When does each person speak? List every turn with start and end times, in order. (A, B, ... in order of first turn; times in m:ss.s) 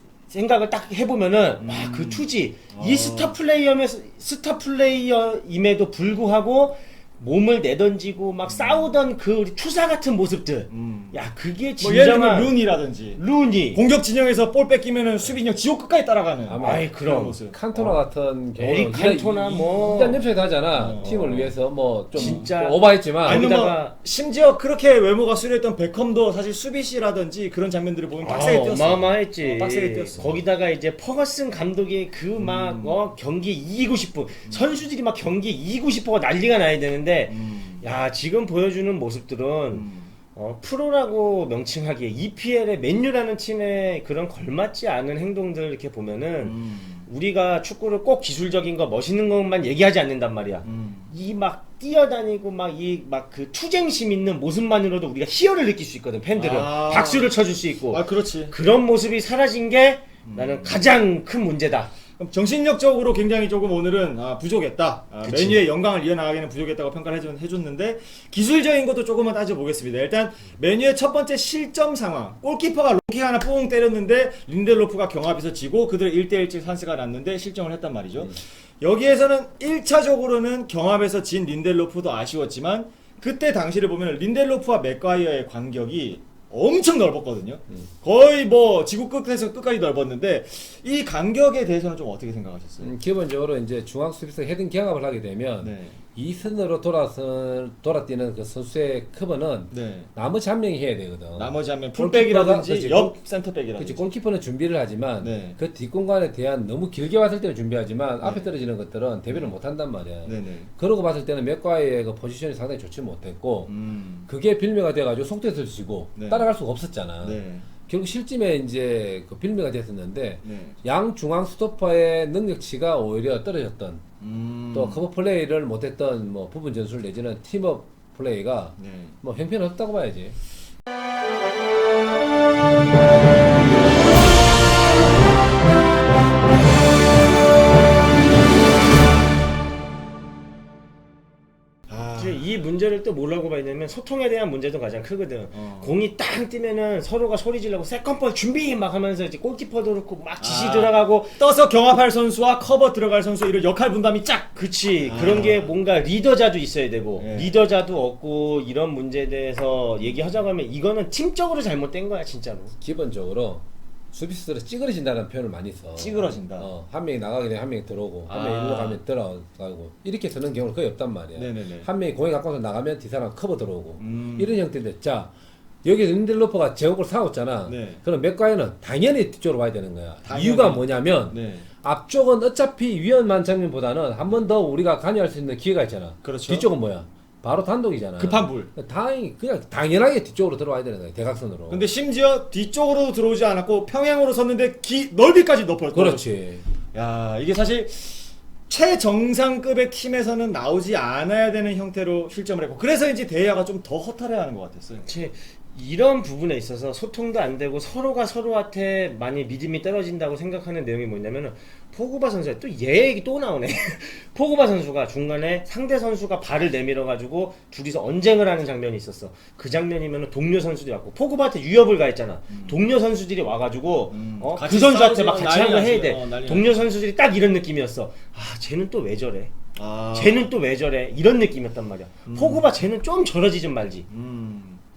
0:00.3-0:12.6 A
0:01.6-0:03.3 B
0:08.5-0:08.9 B
0:10.7-0:11.2 B
0:11.8-0:13.2 B
0:13.2-0:13.8 A
0:13.7-0:18.0 B
0:16.4-0:16.9 C
0:16.6-0:17.4 A
0:17.5-0:23.5 C
0:18.6-0:20.2 A
0:20.7-0:21.5 B
0:22.1-0:22.5 B
0:22.1-0:23.9 A
0:23.2-0:30.4 B
0:28.2-1:01.9 A
0:32.4-0:33.0 B
0:37.3-0:37.8 B
0:39.7-0:40.1 B
0:46.4-0:47.1 B
0:50.6-0:51.1 B
0:56.3-0:57.4 B
0:57.9-0:58.6 B
1:00.2-1:00.8 B
1:02.2-1:32.9 B
1:05.2-1:05.6 A
1:32.8-1:43.1 C
1:35.6-1:36.0 B
1:39.7-1:40.1 B
1:41.4-1:44.0 B
1:43.8-1:53.7 C
1:45.2-1:45.6 B
1:48.2-1:48.5 B
1:49.3-1:49.5 B
1:50.2-1:50.7 B
1:53.7-1:54.3 B
1:54.3-2:04.0 C
1:56.2-1:56.5 B
1:57.2-1:57.7 B
2:00.4-2:00.8 B
2:04.2-2:05.0 B
2:04.7-2:10.4 C
2:08.8-2:09.2 B
2:21.9-2:22.4 B
2:22.2-2:31.4 A
2:25.5-2:25.9 B
2:30.4-2:35.7 B
2:34.5-2:42.7 A
2:37.2-2:37.5 B
2:42.8-2:55.3 C
2:45.9-2:46.7 B
2:48.3-2:49.0 B
2:51.4-2:51.9 B
2:54.0-2:54.6 B
2:55.8-3:11.8 C
2:57.7-2:58.0 B
3:00.2-3:01.7 B
3:06.2-3:06.7 B
3:08.2-3:08.7 B
3:11.7-3:16.2 B
3:15.9-3:16.7 C
3:16.9-3:25.0 B
3:25.0-3:49.5 A
3:42.5-3:42.8 B
3:44.1-3:46.9 B
3:49.7-3:50.5 B
3:50.1-3:54.0 A
3:52.2-3:52.7 B
3:54.1-3:54.8 B